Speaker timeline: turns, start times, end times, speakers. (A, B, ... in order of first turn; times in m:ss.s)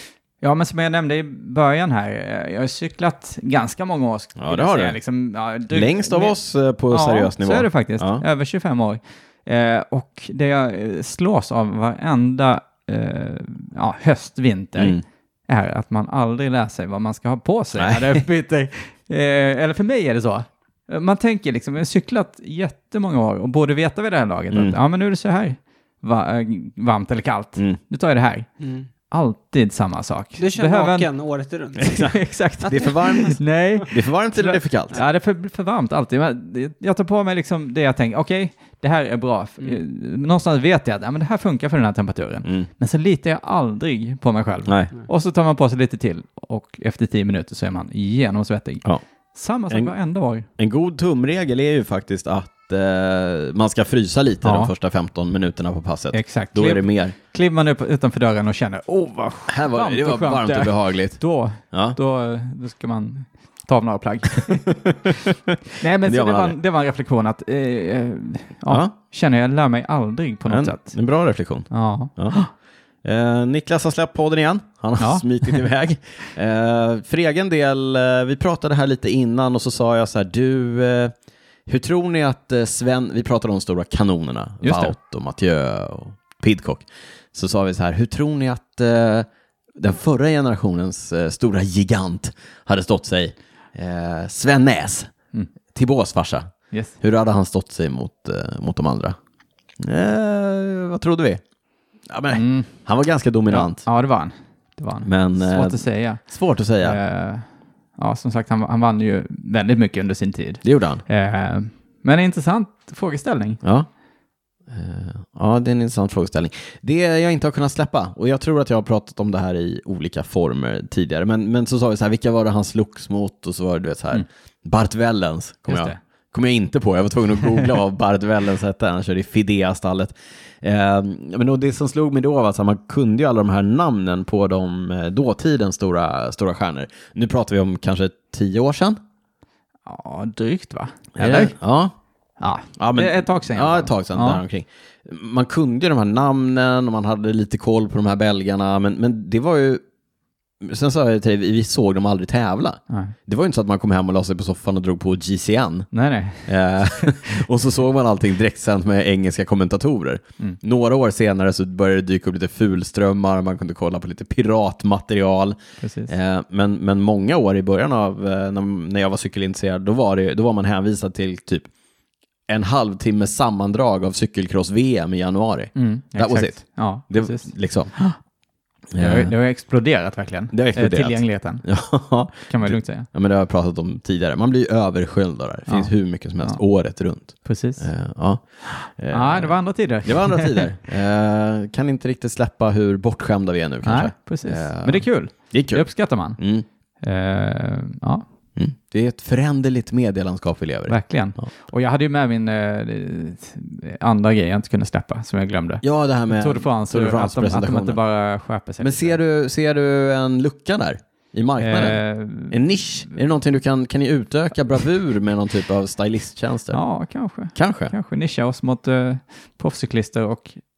0:00.4-0:06.3 A
0:04.4-0:05.0 B
0:05.7-0:08.2 B
0:06.9-0:28.5 A
0:14.8-0:15.0 B
0:17.8-0:18.2 B
0:24.5-0:24.8 B
0:28.6-0:28.9 C
0:29.1-0:31.1 A
0:30.4-0:32.0 C
0:31.8-0:35.0 B
0:31.8-0:50.5 A
0:32.6-0:32.9 C
0:44.6-0:44.9 B
0:50.6-0:57.1 B
0:54.4-0:54.7 A
0:56.1-1:11.0 A
0:59.5-1:02.0 B
1:04.8-1:06.6 B
1:10.5-1:12.4 B
1:11.7-1:12.5 A
1:13.0-1:21.1 B
1:15.0-1:15.6 A
1:21.6-1:35.1 B
1:24.6-1:24.9 A
1:35.7-1:39.2 B
1:36.7-1:37.0 A
1:39.8-1:41.4 B
1:42.1-1:43.8 B
1:42.3-1:42.7 A
1:43.5-1:46.2 A
1:45.0-1:47.0 B
1:46.8-1:47.4 A
1:48.0-1:53.6 A
1:50.6-1:51.0 B
1:53.6-1:53.9 B
1:54.7-2:19.0 B
2:05.7-2:06.0 A
2:19.8-2:21.6 A
2:21.2-2:21.9 B
2:22.4-2:24.4 A
2:22.8-2:29.8 B
2:30.6-2:35.9 B
2:35.9-2:37.4 A
2:36.4-2:51.7 B
2:45.8-2:46.1 A
2:52.5-2:57.9 B
2:55.7-2:58.2 A
2:58.9-2:59.3 B
2:59.0-3:01.8 A
3:00.5-3:16.6 B
3:02.3-3:03.1 A
3:05.7-3:06.6 A
3:07.4-3:07.9 A
3:08.7-3:10.7 A
3:13.8-3:16.4 A
3:17.0-3:18.2 A
3:18.6-3:21.5 B
3:20.9-3:29.2 A
3:25.8-3:28.0 B
3:28.8-3:36.8 B
3:31.6-3:33.2 A
3:36.7-3:40.6 A
3:37.5-3:37.9 B